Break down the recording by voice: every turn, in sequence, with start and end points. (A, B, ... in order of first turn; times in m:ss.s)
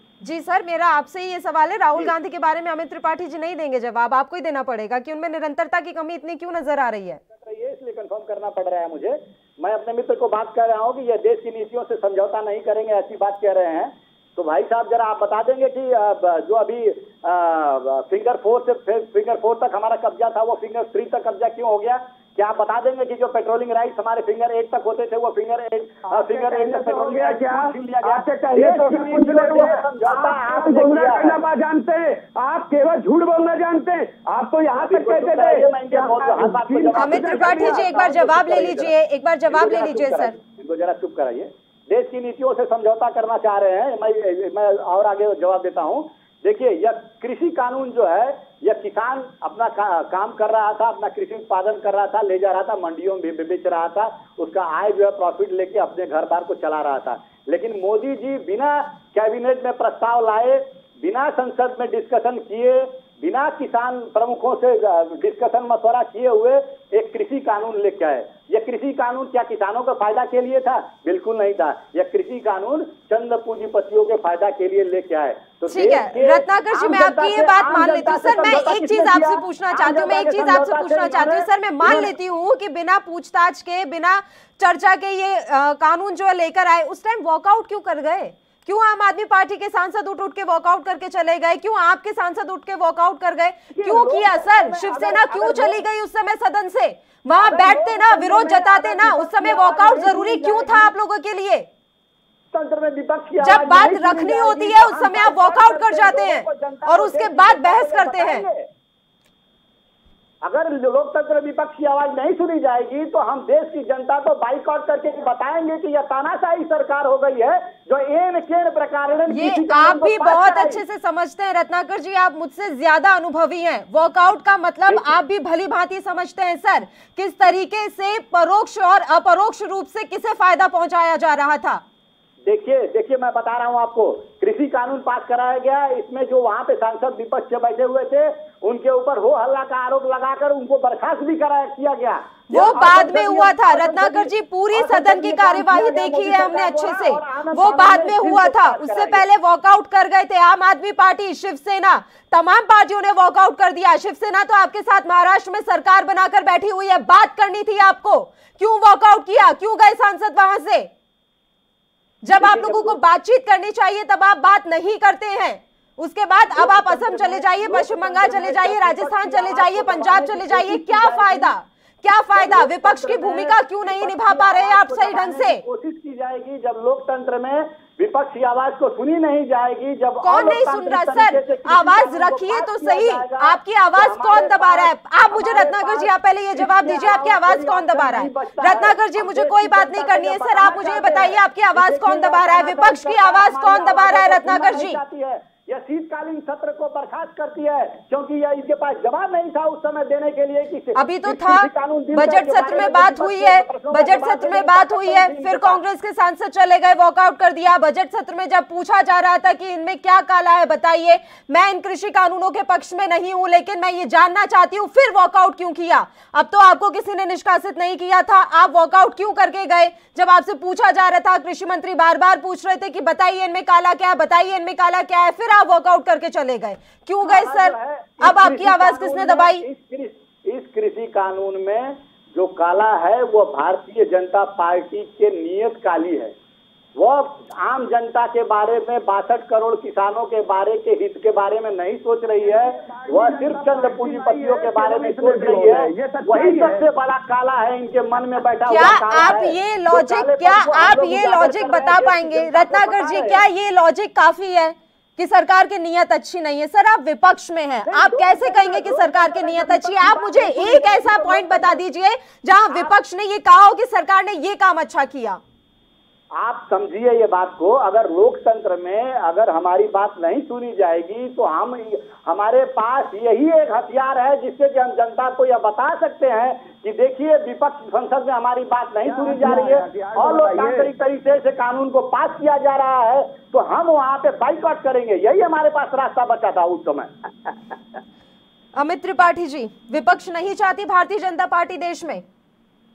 0:00.2-0:07.2 A
0:07.3-0:31.4 B
0:26.1-0:38.0 C
0:34.8-0:38.9 B
0:37.0-0:40.4 A
0:39.5-1:22.1 B
1:15.7-1:41.7 A
1:33.7-1:35.8 B
1:37.4-1:40.9 B
1:42.5-1:48.7 B
1:43.4-1:48.4 A
1:50.4-2:00.8 B
1:59.3-2:11.8 A
2:04.9-2:05.2 B
2:12.4-2:29.3 B
2:22.5-2:40.9 A
2:42.2-2:55.6 A
2:42.3-2:43.0 B
2:46.5-2:51.6 B
2:52.3-3:25.8 B
3:00.2-3:15.0 A
3:21.0-3:49.6 A
3:47.2-3:56.3 B
3:57.0-4:13.4 B
4:02.4-4:06.9 C
4:08.7-4:25.4 A
4:17.9-4:21.8 B
4:26.4-4:47.1 B
4:39.0-4:40.9 C
4:48.8-4:52.2 A